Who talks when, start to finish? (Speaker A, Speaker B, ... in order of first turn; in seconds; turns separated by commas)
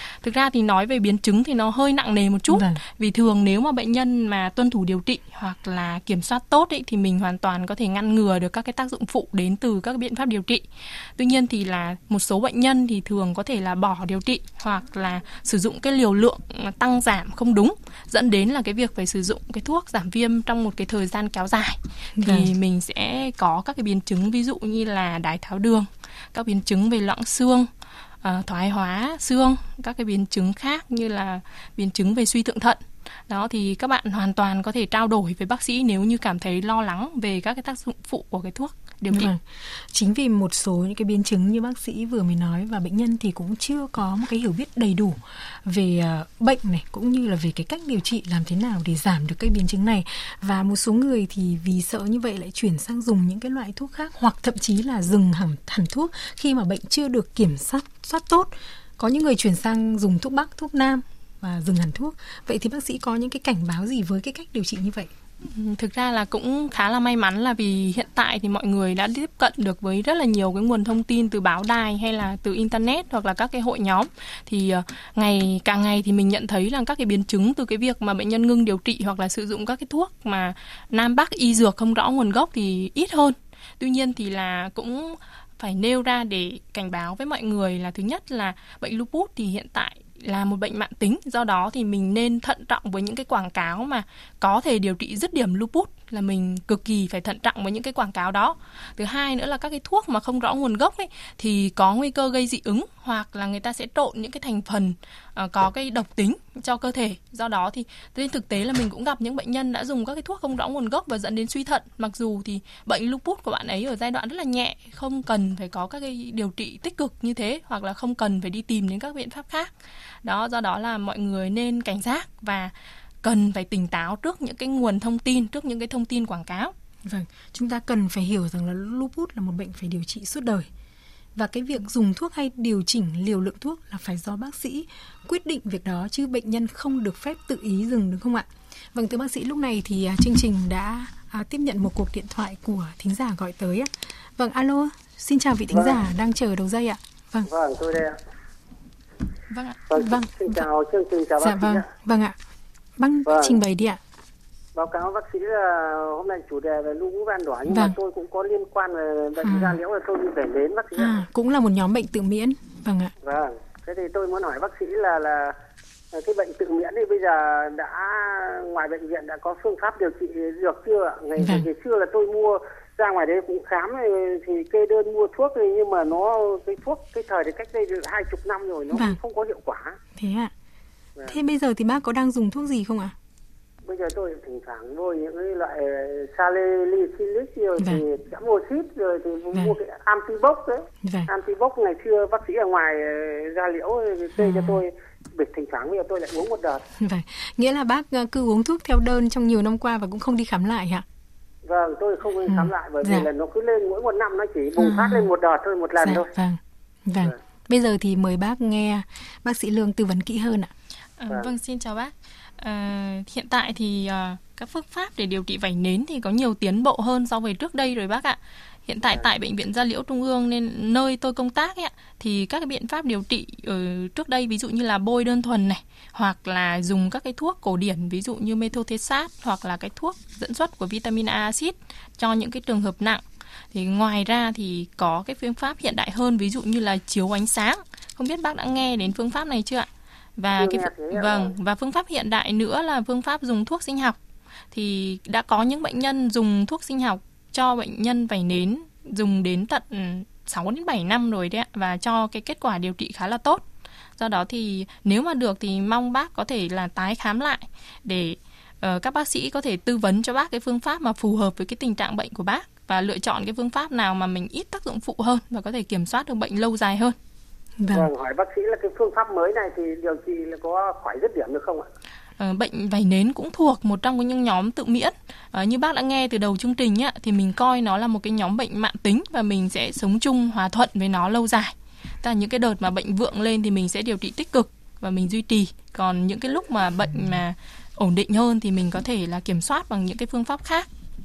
Speaker A: 0.2-27.7, Speaker B: 2.5-2.8, Speaker B: 22.2-22.5, Speaker A: 28.2-39.3, Speaker B: 39.1-65.1, Speaker A: 65.4-119.7, Speaker A: 120.2-122.7, Speaker A: 123.2-126.7, Speaker B: 127.0-130.7, Speaker B: 131.3-147.5, Speaker C: 145.7-146.0, Speaker C: 147.5-148.2, Speaker A: 149.5-149.8, Speaker C: 149.9-151.8, Speaker B: 149.9-150.7, Speaker B: 151.4-152.4, Speaker B: 153.0-154.0, Speaker C: 153.3-153.5, Speaker C: 154.8-161.2, Speaker B: 157.7-158.0, Speaker B: 159.4-159.8, Speaker B: 160.9-163.1, Speaker C: 163.2-165.5, Speaker C: 166.1-180.0, Speaker B: 171.4-171.7, Speaker B: 178.9-179.2, Speaker B: 180.2-180.5, Speaker B: 181.2-183.1, Speaker C: 183.8-196.8, Speaker B: 187.8-188.0, Speaker B: 191.0-191.3, Speaker B: 194.4-194.8, Speaker B: 196.9-201.0, Speaker C: 201.7-206.3, Speaker B: 202.4-203.3, Speaker B: 204.8-205.3, Speaker B: 206.0-210.7, Speaker A: 211.2-244.2, Speaker C: 240.6-241.5, Speaker A: 244.7-253.6, Speaker A: 254.2-267.1, Speaker B: 267.8-268.1, Speaker C: 267.9-271.8, Speaker A: 272.4-290.9